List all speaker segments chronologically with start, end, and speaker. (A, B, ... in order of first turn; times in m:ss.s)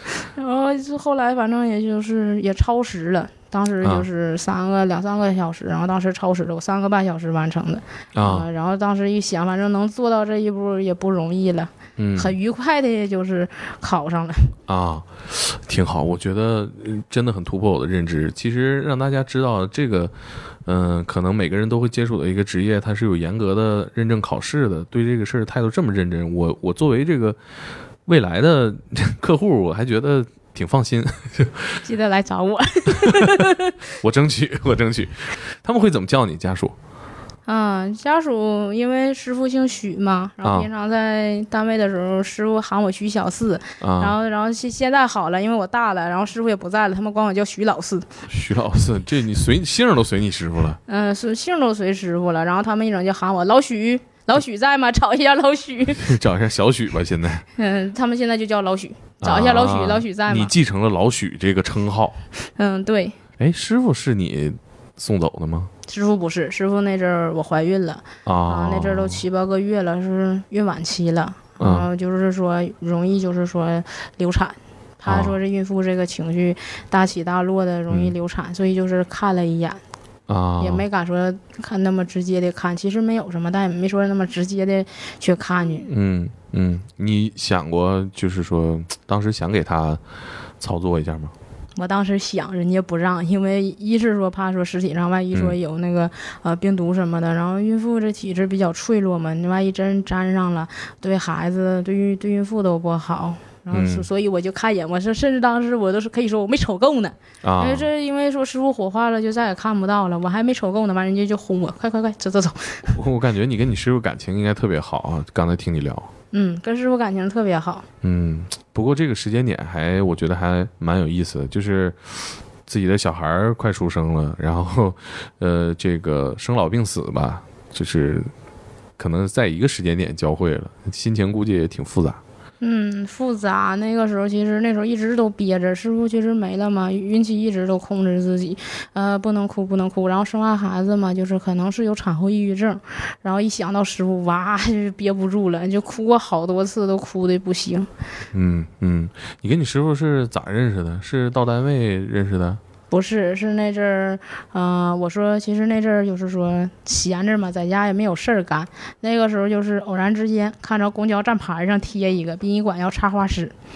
0:00.1-0:14.6 A
0:08.1-0:08.4 B
0:12.0-0:12.3 B
0:14.7-0:20.1 B
0:20.6-0:27.4 B
0:28.0-0:31.8 B
0:31.8-0:33.7 A
0:33.0-0:33.3 B
0:34.0-0:36.7 B
0:37.5-0:48.1 A
0:43.8-0:44.1 B
0:48.3-0:50.8 B
0:50.9-0:56.1 A
0:56.0-0:57.4 B
0:57.6-1:00.5 A
0:59.2-1:02.2 B
1:02.6-1:03.2 A
1:03.4-1:05.7 B
1:05.9-1:19.8 A
1:08.2-1:09.2 B
1:11.6-1:11.9 B
1:15.0-1:15.3 B
1:20.3-1:20.8 B
1:20.6-1:25.9 A
1:25.8-1:30.0 B
1:30.6-1:31.3 B
1:31.8-1:53.0 A
1:43.7-1:44.0 B
1:47.4-1:47.8 B
1:52.9-1:56.1 B
1:56.3-1:57.8 A
1:58.0-2:08.3 B
2:09.0-2:12.2 B
2:12.6-2:27.9 A
2:28.3-2:32.6 B
2:32.9-2:43.5 A